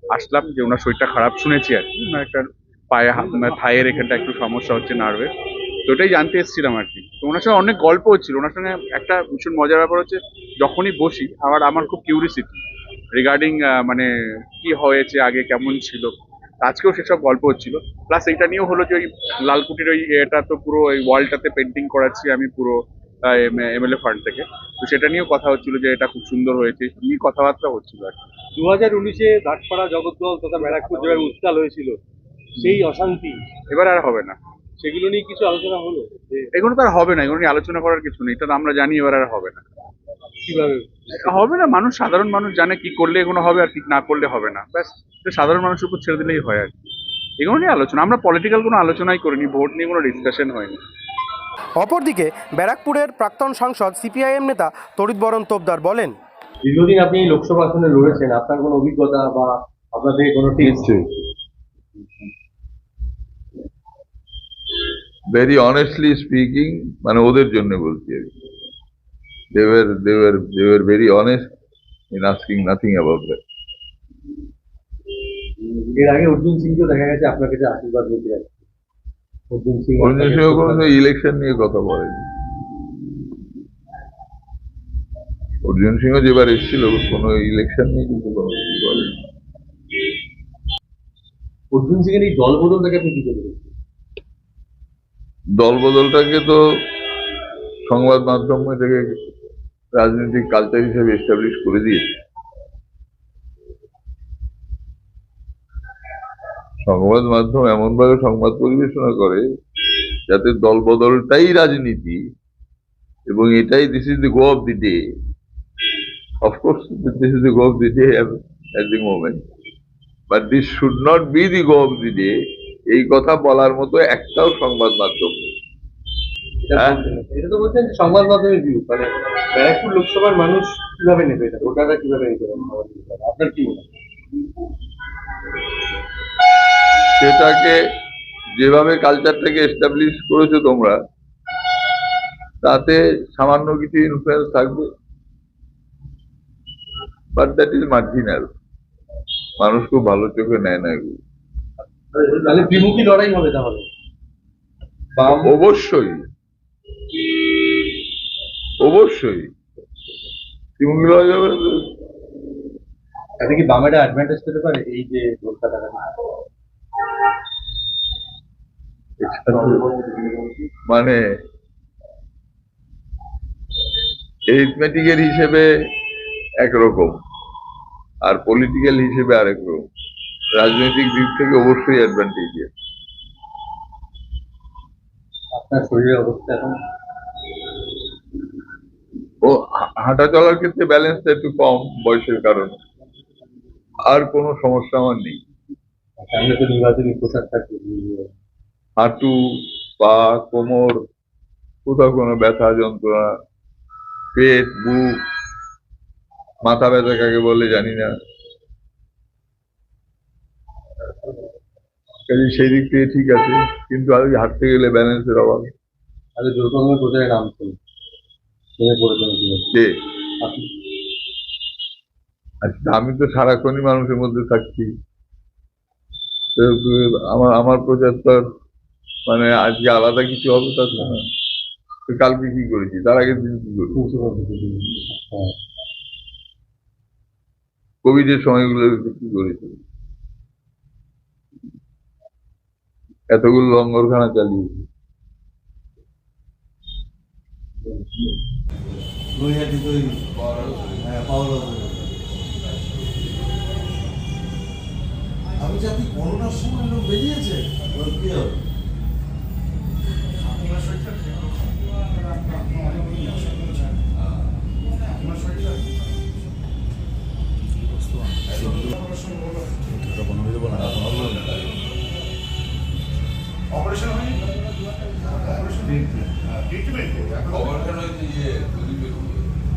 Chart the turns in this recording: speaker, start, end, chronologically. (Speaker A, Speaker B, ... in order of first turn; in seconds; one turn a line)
Speaker A: 0.1-5.3
Speaker A: 5.9-12.6
Speaker A: 13.1-14.1
Speaker A: 14.6-28.2
Speaker B: 28.6-32.0
Speaker B: 32.6-33.4
Speaker A: 33.7-34.4
Speaker B: 34.8-36.5
Speaker A: 36.5-39.6
Speaker B: 40.5-41.1
Speaker A: 41.1-46.7
Speaker A: 47.4-50.8
Speaker C: 51.8-56.1
Speaker B: 56.6-60.9
Speaker D: 60.6-61.0
Speaker D: 65.3-68.3
Speaker D: 69.5-71.5
Speaker D: 72.1-73.4
Speaker B: 75.8-78.5
Speaker B: 79.5-80.9
Speaker D: 80.0-82.2
Speaker D: 85.6-89.1
Speaker B: 91.7-93.7
Speaker D: 95.6-96.6
Speaker D: 97.9-99.1
Speaker D: 99.9-102.1
Speaker D: 106.8-109.4
Speaker D: 110.3-112.2
Speaker D: 113.3-115.0
Speaker D: 116.4-119.4
Speaker D: 120.3-122.3
Speaker D: 122.9-125.5
Speaker B: 126.6-133.8
Speaker D: 137.2-137.8
Speaker D: 138.6-141.0
Speaker D: 142.6-144.9
Speaker D: 147.3-148.5
Speaker D: 149.6-151.2
Speaker B: 152.1-153.8
Speaker B: 155.2-155.5
Speaker D: 155.5-156.2
Speaker D: 158.8-159.5
Speaker D: 160.8-161.7
Speaker B: 163.4-166.0
Speaker D: 169.2-169.8
Speaker B: 169.5-170.6
Speaker D: 170.9-171.2
Speaker D: 174.5-175.7
Speaker D: 176.6-177.2
Speaker D: 178.2-179.9
Speaker D: 180.6-182.7
Speaker B: 185.5-186.8
Speaker D: 189.4-192.8
Speaker D: 194.1-195.4
Speaker B: 196.2-198.3
Speaker D: 199.0-199.3
Speaker D: 200.0-201.0
Speaker D: 201.8-203.3
Speaker D: 204.3-205.2
Speaker D: 206.6-208.1
Speaker D: 212.3-215.7
Speaker B: 216.4-217.8
Speaker B: 218.8-219.7
Speaker B: 220.4-220.7
Speaker D: 222.6-224.9
Speaker D: 226.6-228.4
Speaker D: 229.3-231.2
Speaker D: 232.1-234.0
Speaker B: 233.9-235.5
Speaker D: 238.0-239.8
Speaker D: 243.3-244.8
Speaker E: 249.5-250.1
Speaker E: 251.0-251.9
Speaker E: 255.6-258.5
Speaker E: 270.5-271.2